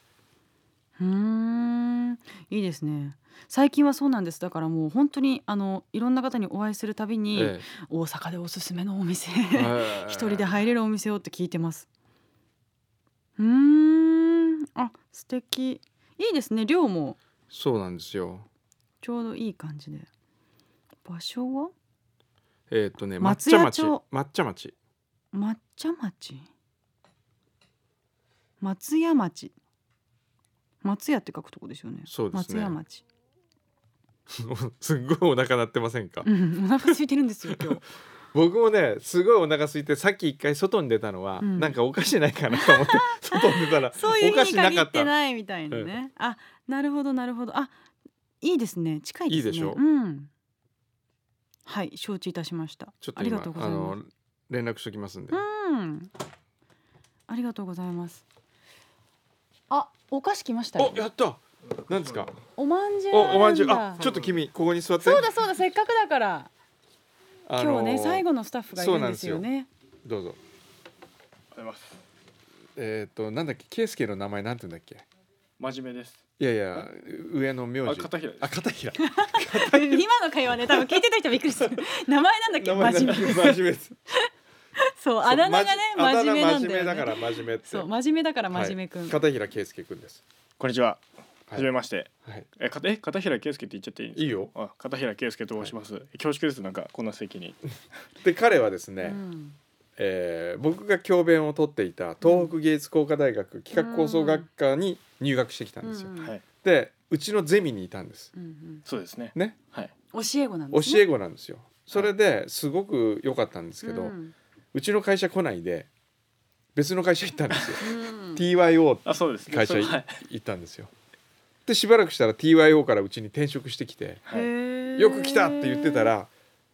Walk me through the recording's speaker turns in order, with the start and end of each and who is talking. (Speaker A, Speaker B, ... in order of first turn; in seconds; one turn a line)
Speaker A: 1.0-11.9
Speaker B: 7.3-7.7
Speaker B: 9.5-10.5
Speaker A: 13.4-17.2
Speaker B: 17.5-18.5
Speaker A: 19.0-20.1
Speaker A: 21.1-21.7
Speaker B: 22.7-24.7
Speaker A: 23.2-24.0
Speaker A: 25.3-26.5
Speaker A: 28.6-29.6
Speaker A: 30.8-33.0
Speaker B: 32.1-32.8
Speaker B: 34.3-36.2
Speaker A: 36.2-37.8
Speaker B: 38.3-45.1
Speaker A: 41.4-41.8
Speaker A: 42.5-47.8
Speaker A: 48.4-50.3
Speaker B: 49.3-49.8
Speaker A: 51.7-54.0
Speaker B: 53.0-55.4
Speaker A: 55.3-56.1
Speaker A: 57.3-58.2
Speaker A: 59.7-61.0
Speaker B: 60.8-62.4
Speaker C: 61.8-62.3
Speaker A: 62.5-64.1
Speaker B: 63.1-65.3
Speaker C: 64.0-64.4
Speaker A: 65.0-66.5
Speaker B: 67.5-69.5
Speaker A: 67.6-69.7
Speaker B: 70.0-70.4
Speaker C: 71.5-72.0
Speaker B: 72.8-75.0
Speaker C: 75.6-76.2
Speaker B: 76.4-80.1
Speaker C: 77.8-78.6
Speaker A: 79.0-84.3
Speaker B: 80.7-81.0
Speaker B: 82.6-84.0
Speaker A: 84.9-89.2
Speaker B: 85.2-87.9
Speaker B: 88.5-90.2
Speaker C: 90.6-97.6
Speaker B: 94.2-94.5
Speaker B: 98.2-99.2
Speaker A: 99.0-99.6
Speaker B: 100.0-106.1
Speaker A: 102.2-102.5
Speaker A: 103.7-104.5
Speaker A: 105.8-106.4
Speaker C: 106.2-106.4
Speaker B: 106.6-108.3
Speaker A: 108.3-108.8
Speaker C: 108.9-109.9
Speaker A: 110.1-111.0
Speaker B: 110.7-114.1
Speaker A: 113.8-114.3
Speaker B: 114.7-115.9
Speaker B: 116.8-117.8
Speaker A: 117.8-118.4
Speaker B: 118.4-120.9
Speaker C: 119.0-120.2
Speaker B: 121.7-124.2
Speaker C: 124.2-124.5
Speaker A: 124.3-126.1
Speaker B: 125.0-126.3